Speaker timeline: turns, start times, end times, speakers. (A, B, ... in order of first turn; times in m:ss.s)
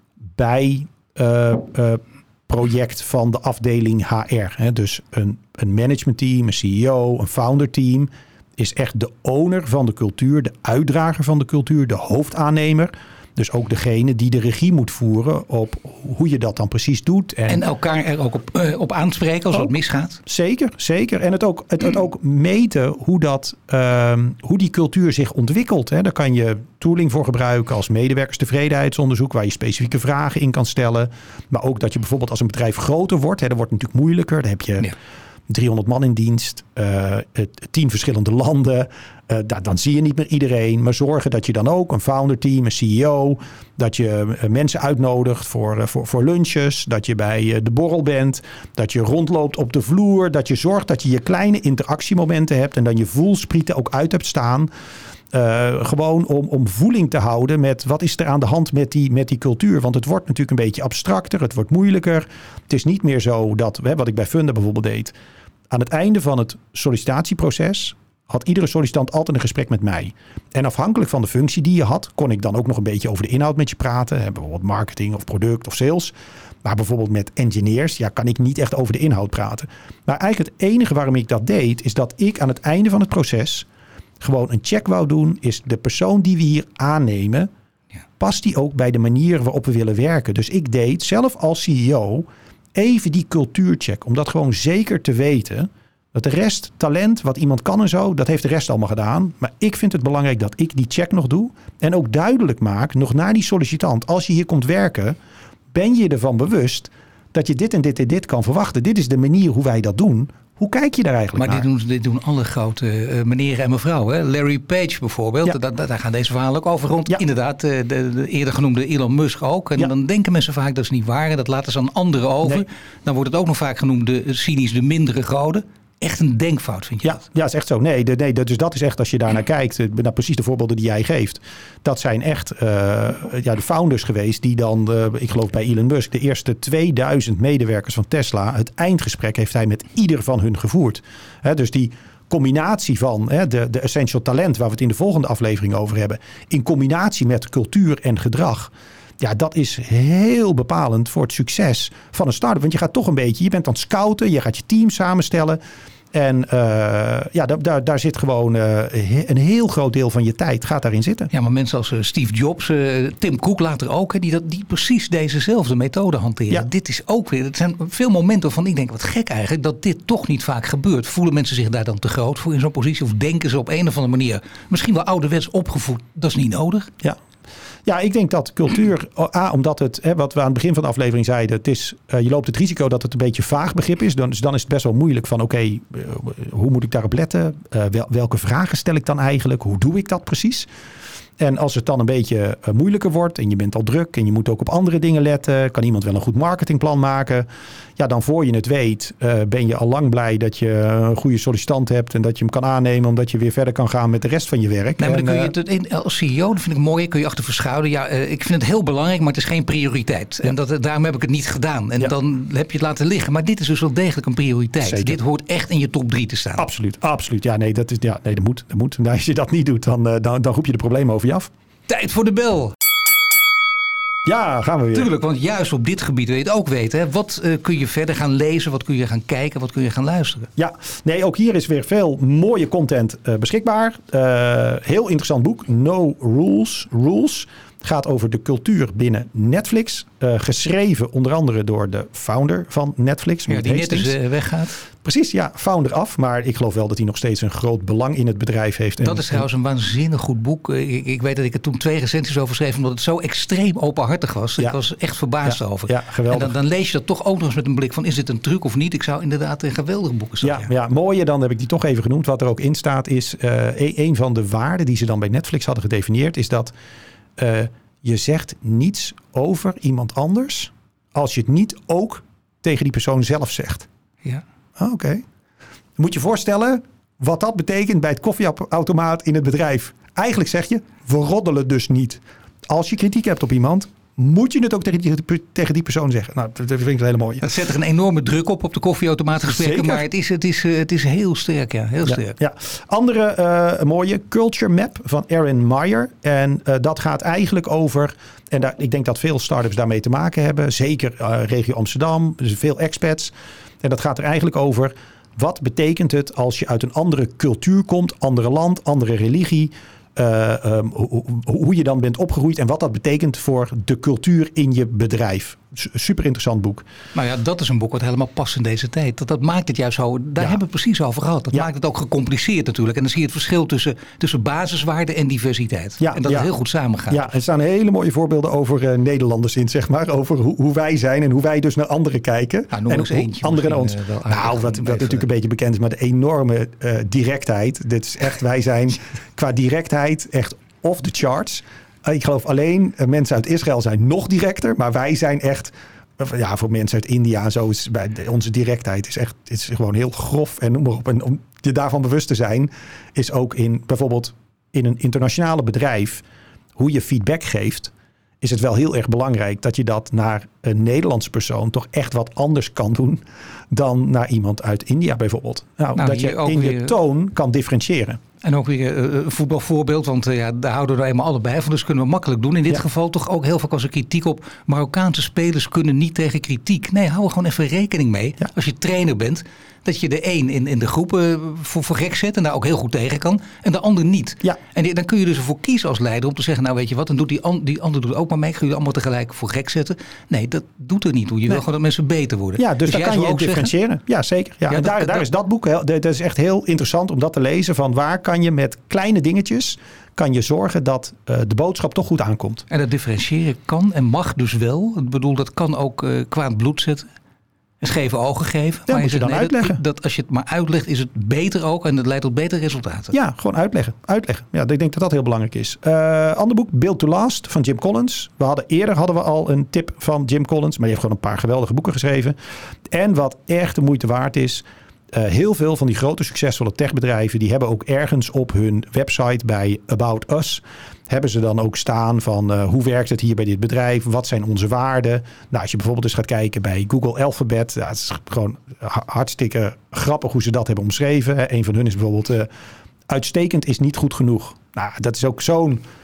0:00.4-0:17.6 A
0:17.5-0:20.2 B
0:20.3-0:34.9 A
0:35.5-0:54.7 A
0:55.3-1:05.1 A
1:05.7-1:16.1 A
1:16.6-1:23.7 A
1:24.2-1:27.5 A
1:28.2-1:45.2 A
1:45.7-1:51.6 A
1:51.4-2:07.2 B
2:07.0-2:35.6 A
2:36.1-2:41.3 A
2:41.3-2:56.9 B
2:57.9-3:10.7 A
3:11.4-3:25.5 A
3:25.0-3:36.6 B
3:34.8-3:35.2 A
3:36.6-3:41.5 A
3:41.9-3:42.7 B
3:44.2-3:45.1 A
3:44.9-3:50.5 B
3:50.6-4:04.2 A
4:03.5-4:04.8 B
4:05.0-4:09.5 A
4:09.0-4:20.7 B
4:15.4-4:16.6 A
4:20.4-4:26.7 A
4:27.4-4:33.9 A
4:34.8-4:35.2 A
4:36.0-4:47.5 A
4:47.4-4:52.4 B
4:49.5-4:50.0 A
4:52.1-5:16.8 A
5:17.1-5:27.3 B
5:26.0-5:26.5 A
5:27.1-5:56.2 A
5:32.7-5:35.3 B
5:56.8-6:08.2 A
6:06.0-6:07.0 B
6:08.4-6:33.7 B
6:32.6-6:42.6 A
6:34.7-6:35.3 B
6:42.7-6:47.1 B
6:47.8-6:53.1 B
6:48.9-6:49.8 A
6:53.1-7:02.4 A
7:02.9-7:22.5 A
7:23.1-7:25.8 A